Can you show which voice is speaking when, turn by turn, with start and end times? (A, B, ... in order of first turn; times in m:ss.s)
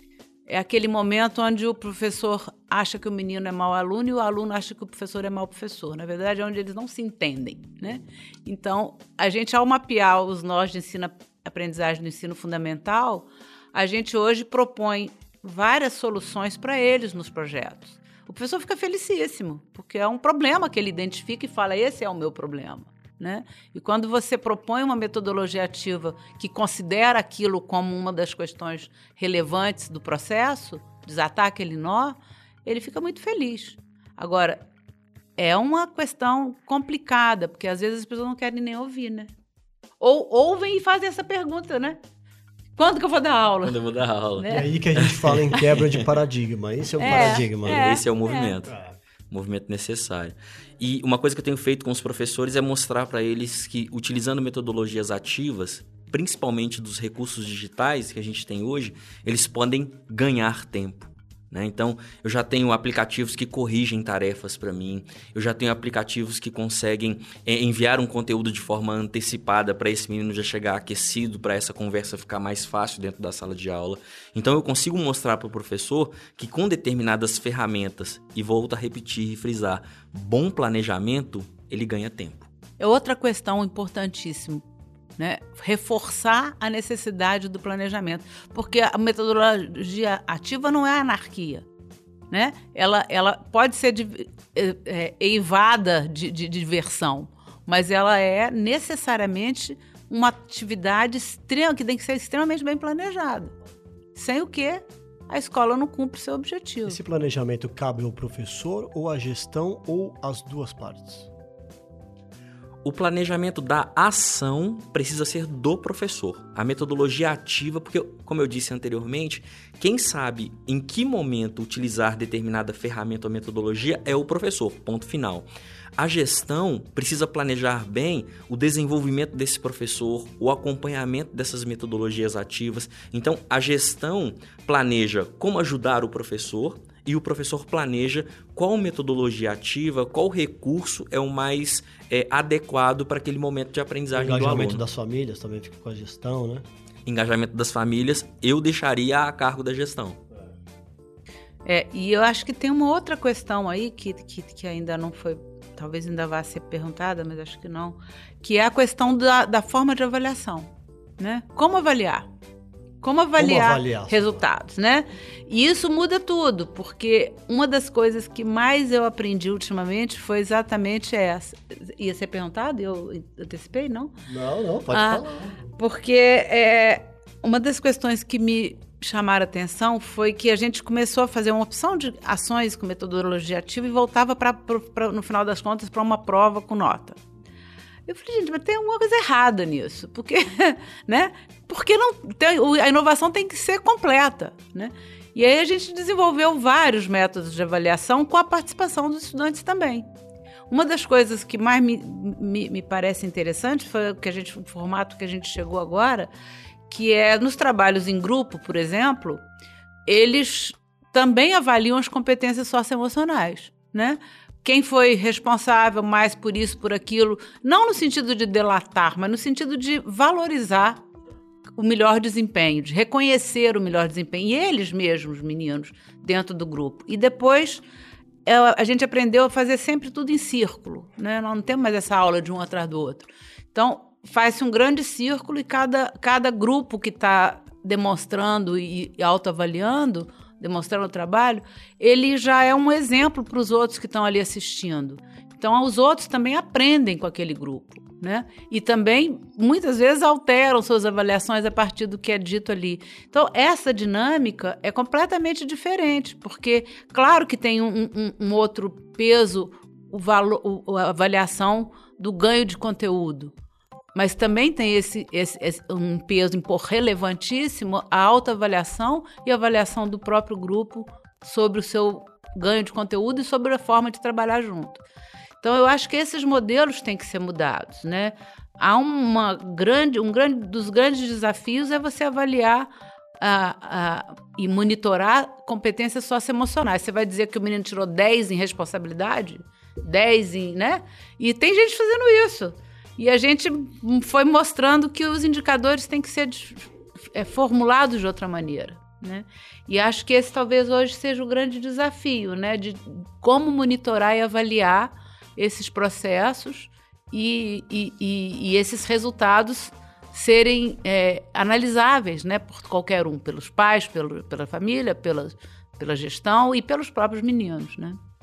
0:00.5-0:34.6 A
0:35.4-0:39.3 A
0:40.0-0:42.0 A
0:42.8-0:43.8 A
0:43.6-0:46.1 B
0:44.4-0:44.7 A
0:44.5-0:48.0 C
0:47.0-0:48.5 A
0:47.1-0:48.8 B
0:49.3-1:22.5 B
1:22.8-1:24.6 A
1:25.2-1:31.7 A
1:32.3-1:43.5 A
1:44.2-1:47.0 A
1:46.9-1:51.3 C
1:52.8-2:24.8 B
2:24.1-2:26.7 C
2:27.1-2:30.2 B
2:31.6-2:42.3 A
2:43.0-2:54.1 A
2:43.4-2:44.5 C
2:54.3-2:55.6 C
2:54.9-3:07.2 A
3:08.1-3:20.1 A
3:20.7-3:26.3 A
3:26.9-3:29.4 A
3:30.1-3:41.0 A
3:41.8-3:47.8 A
3:48.4-4:23.5 A
4:24.2-4:35.0 A
4:35.6-5:18.2 A